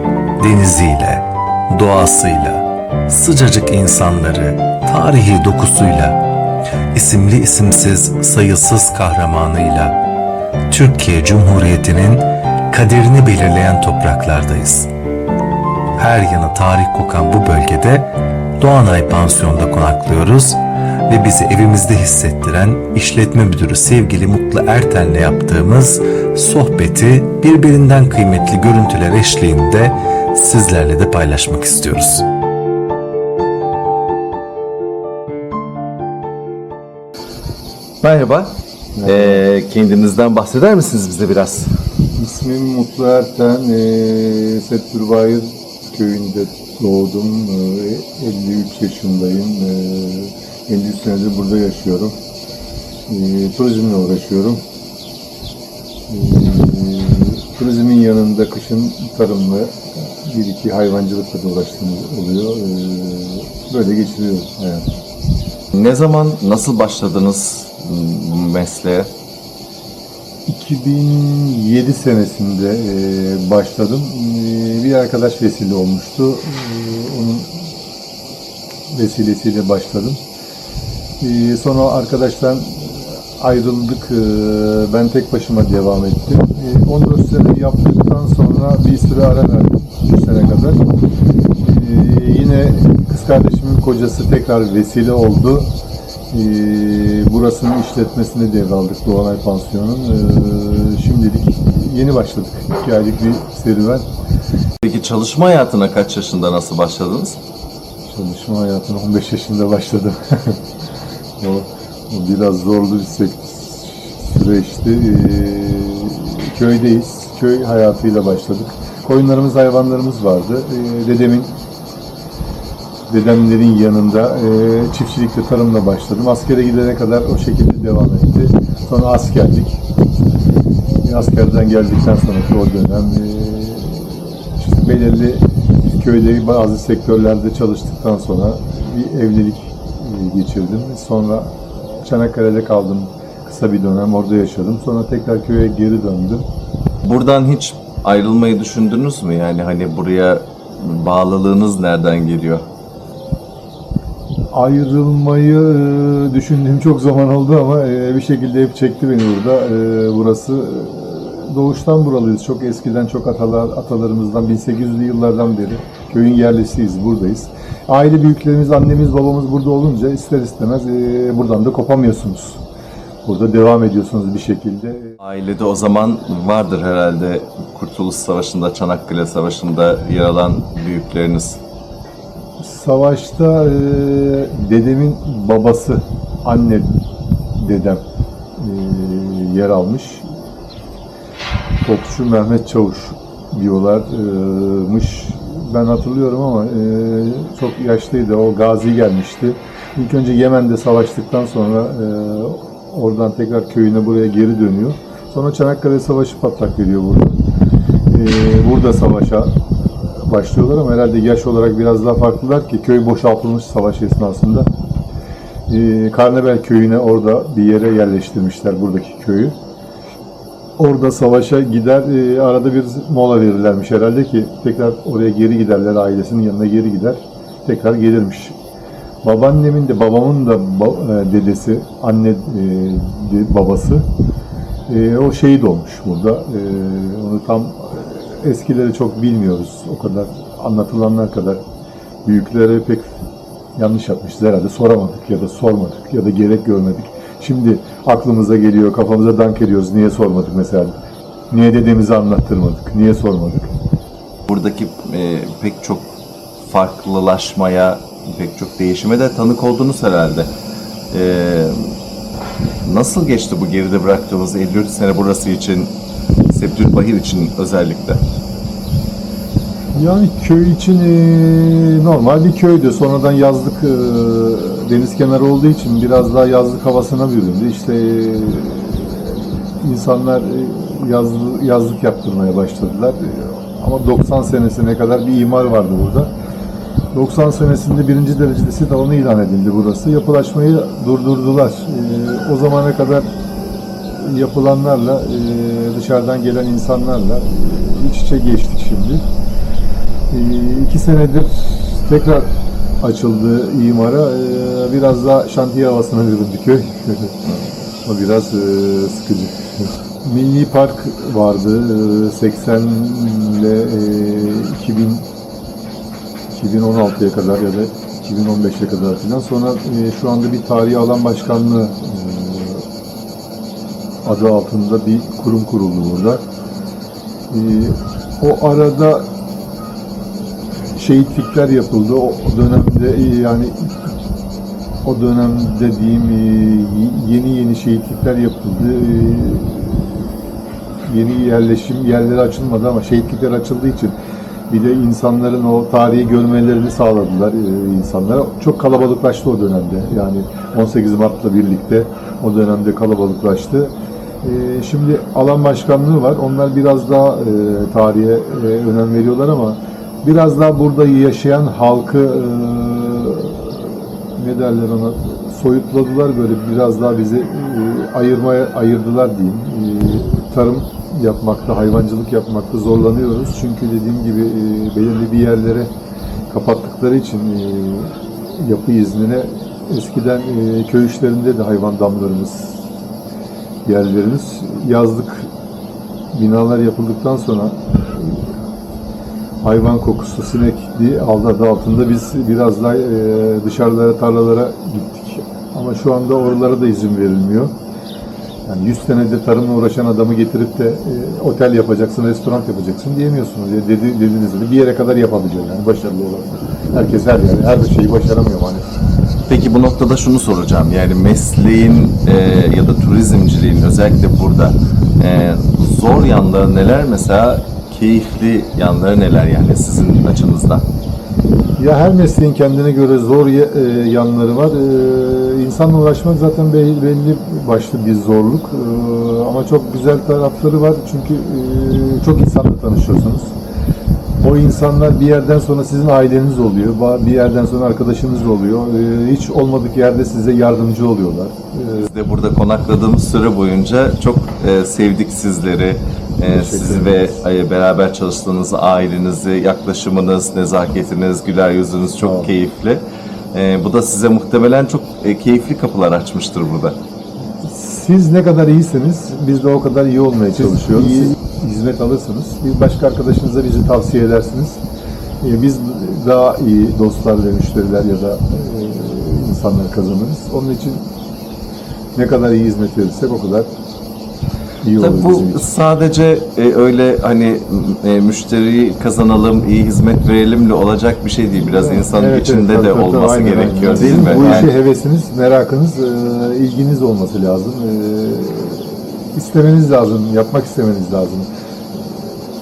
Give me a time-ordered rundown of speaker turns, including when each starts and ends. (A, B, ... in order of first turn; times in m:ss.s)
0:00.4-0:06.2 A
0:06.9-0:09.9 A
0:10.7-0:14.9 A
0:16.0-0:32.2 A
0:31.0-0:32.0 B
0:38.0-0:41.7 B
0:39.0-0:39.4 C
0:42.2-0:52.2 C
0:53.1-0:54.6 C
0:56.1-1:04.8 C
1:05.7-1:09.1 B
1:10.5-1:17.6 C
1:18.9-1:20.2 C
1:21.2-1:30.8 C
1:31.6-1:35.7 C
1:36.3-1:44.0 C
1:44.8-1:47.4 B
1:48.0-1:50.6 C
1:51.4-2:01.5 C
2:03.1-2:09.8 C
2:11.0-2:26.4 C
2:27.0-2:32.6 B
2:34.5-2:52.6 C
2:53.2-2:55.2 C
2:55.2-3:01.6 B
3:02.6-3:07.0 C
3:07.5-3:08.0 C
3:08.6-3:10.3 C
3:11.8-3:27.4 C
3:28.1-3:34.7 C
3:35.7-3:39.6 C
3:40.8-3:48.6 C
3:49.2-3:54.0 C
3:54.9-4:01.6 C
4:02.2-4:03.1 C
4:03.8-4:10.9 C
4:11.5-4:13.7 C
4:14.5-4:16.1 B
4:16.7-4:20.5 B
4:21.1-4:21.9 B
4:22.8-4:25.9 B
4:26.5-4:28.2 B
4:29.9-4:46.3 C
4:47.1-4:53.3 C
4:53.9-4:59.2 C
5:00.3-5:02.5 C
5:03.0-5:07.4 C
5:08.0-5:15.2 C
5:16.5-5:22.8 C
5:24.2-5:26.4 C
5:27.5-5:29.2 C
5:30.9-5:34.0 C
5:35.0-5:40.3 C
5:41.0-5:44.1 C
5:44.7-6:15.9 C
6:16.5-6:22.8 C
6:23.8-6:25.5 C
6:26.3-6:28.5 C
6:29.6-6:37.7 C
6:38.6-6:48.9 C
6:49.5-7:00.8 B
7:01.8-7:13.5 C
7:14.4-7:22.1 C
7:22.0-7:37.0 B
7:26.5-7:27.4 C
7:32.2-7:32.5 C
7:37.6-7:44.8 C
7:45.4-7:51.1 C
7:52.2-7:53.7 C
7:54.8-7:55.6 C
7:55.0-8:04.7 B
8:01.6-8:12.2 C